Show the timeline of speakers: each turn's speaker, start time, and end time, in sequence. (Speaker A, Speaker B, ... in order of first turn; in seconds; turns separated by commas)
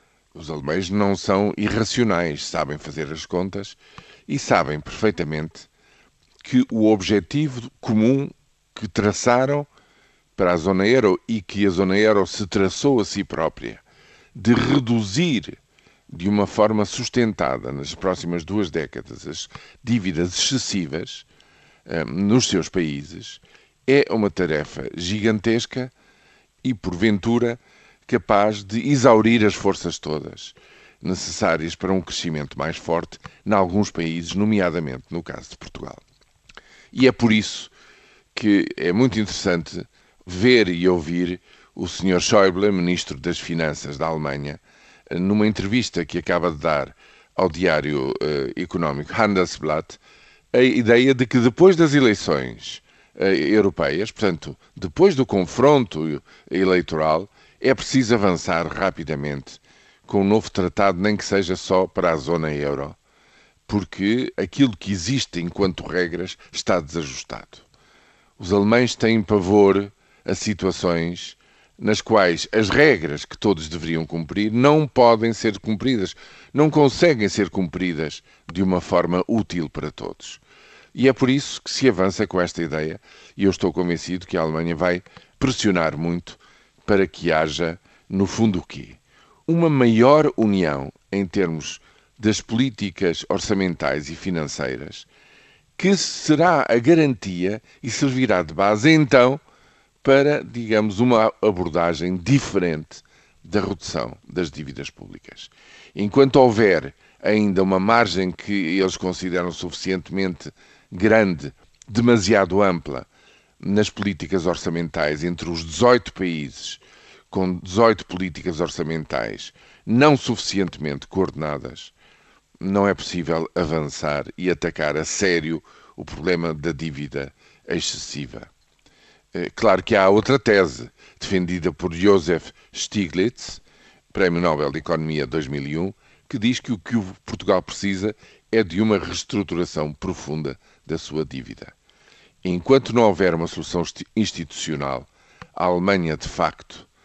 Speaker A: 0.3-5.7, Speaker A: 6.4-9.7, Speaker A: 10.4-13.8, Speaker A: 14.3-15.6, Speaker A: 16.1-21.3, Speaker A: 21.9-25.9, Speaker A: 26.6-36.0, Speaker A: 36.9-37.7, Speaker A: 38.3-50.0, Speaker A: 50.5-63.0, Speaker A: 63.7-67.7, Speaker A: 68.4-80.4, Speaker A: 80.9-95.1, Speaker A: 95.8-99.4, Speaker A: 100.0-113.1, Speaker A: 113.6-121.9, Speaker A: 122.6-128.5, Speaker A: 129.3-133.6, Speaker A: 134.1-141.7, Speaker A: 142.4-146.9